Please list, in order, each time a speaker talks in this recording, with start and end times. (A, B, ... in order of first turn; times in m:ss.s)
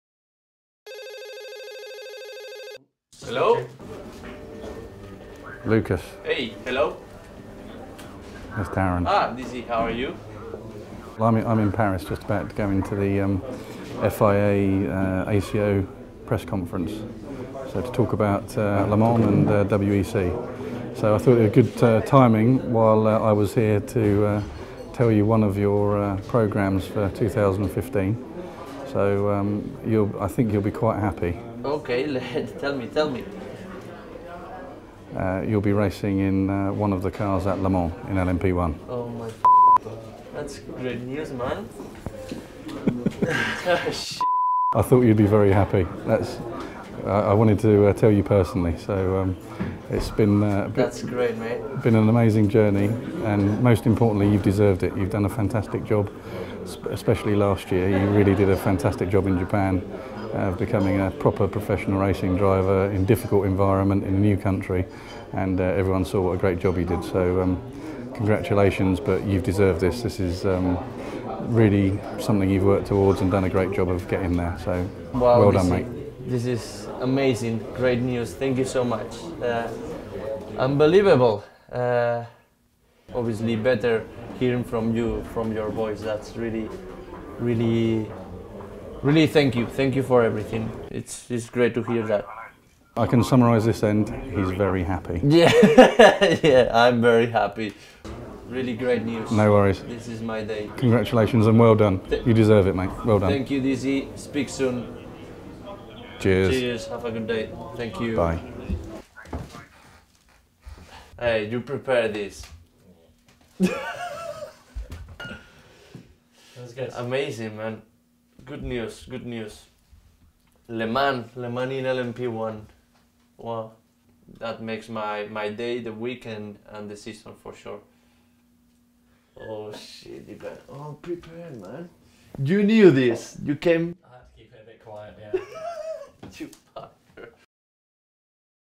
0:03.2-0:03.7 A
0:03.2-0:03.7 B
0:05.6-0:06.2 C
0:06.2-0:07.0 A
0:08.5-0:09.1 C
0:09.0-0:10.2 A
0:11.2-0:31.4 C
0:31.6-0:33.4 A
0:35.1-0:38.8 C
0:38.8-0:39.8 A
0:40.3-0:42.0 A
0:43.4-0:44.3 A
0:44.7-1:15.9 C
0:50.7-0:51.6 A
1:15.1-1:26.8 A
1:27.4-1:28.2 A
1:29.0-1:32.3 A
1:33.0-1:35.2 C
1:35.2-1:40.7 A
1:39.3-1:40.0 C
1:40.8-1:43.4 C
1:43.2-1:44.9 A
1:46.2-1:46.6 C
1:46.4-1:48.3 A
1:48.1-1:48.4 C
1:51.2-1:52.5 A
1:56.5-1:57.0 B
1:56.9-2:07.8 A
2:09.3-2:13.9 A
2:14.0-2:15.6 B
2:15.6-2:17.3 A